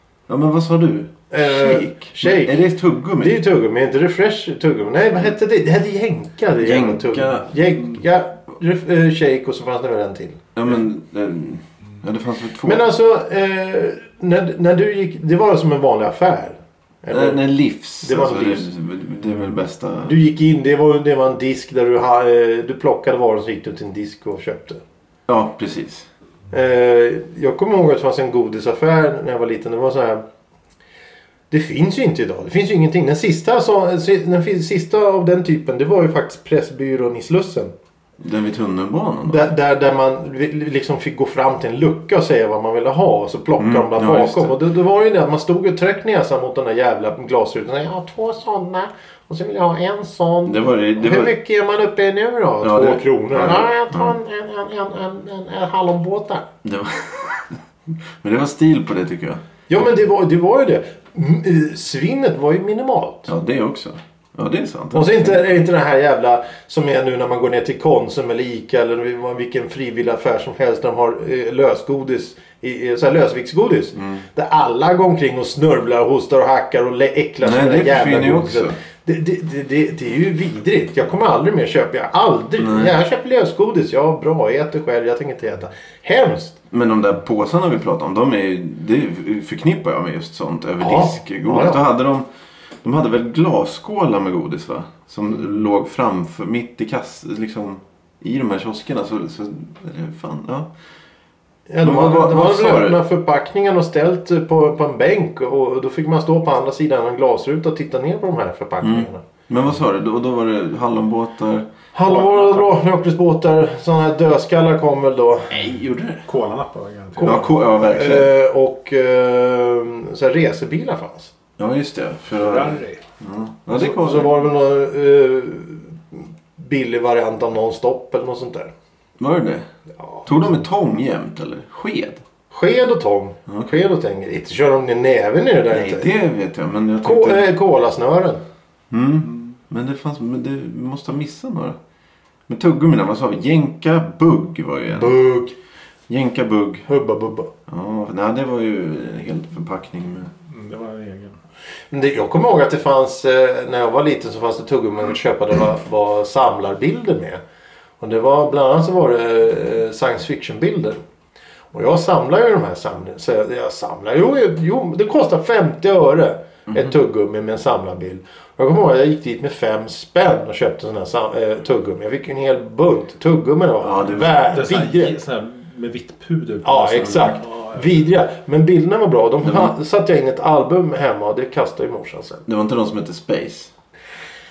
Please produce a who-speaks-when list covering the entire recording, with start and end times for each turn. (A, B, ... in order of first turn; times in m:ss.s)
0:00.3-0:03.4 A
0:01.3-0:02.6 B
0:03.2-0:10.5 B
0:06.6-0:07.7 A
0:10.6-0:12.9 A
0:12.6-0:17.4 B
0:17.1-0:20.2 A
0:18.0-0:18.7 B
0:20.0-0:24.8 B
0:25.3-0:26.1 A
0:26.5-0:30.2 B
0:31.5-0:37.7 B
0:38.2-0:39.5 A
0:39.3-0:56.5 B
0:43.6-0:44.6 A
0:50.4-0:51.3 A
0:52.6-0:54.2 A
0:56.6-0:57.6 A
0:58.2-0:59.4 A
0:59.7-1:03.3 B
1:03.3-1:05.5 A
1:04.9-1:26.6 B
1:14.0-1:14.2 A
1:17.4-1:18.8 A
1:22.6-1:23.0 A
1:26.7-1:32.3 A
1:30.8-1:31.8 B
1:32.8-1:40.7 A
1:41.7-1:49.2 B
1:41.8-1:43.0 A
1:48.8-1:51.7 A
1:52.0-1:55.6 B
1:52.1-1:52.7 C
1:55.5-1:56.2 A
1:56.3-1:57.5 C
1:57.2-2:01.3 B
1:57.2-1:58.3 A
2:01.6-2:04.4 A
2:02.4-2:03.0 C
2:03.7-2:08.7 B
2:09.2-2:09.7 A
2:10.2-2:12.2 A
2:12.5-2:16.1 B
2:13.5-2:13.7 A
2:15.7-2:17.5 A
2:17.0-2:18.4 B
2:18.9-2:21.8 A
2:22.5-2:25.2 A
2:25.0-2:25.5 B
2:26.1-2:26.9 A
2:26.9-2:27.5 B
2:27.7-2:30.3 A
2:30.5-2:31.4 C
2:31.9-2:37.4 B
2:38.0-2:41.0 B
2:41.7-2:55.2 B
2:53.8-2:54.4 A
2:54.5-2:58.0 C
2:56.6-3:02.4 B
2:59.4-2:59.7 A
3:02.5-3:03.7 A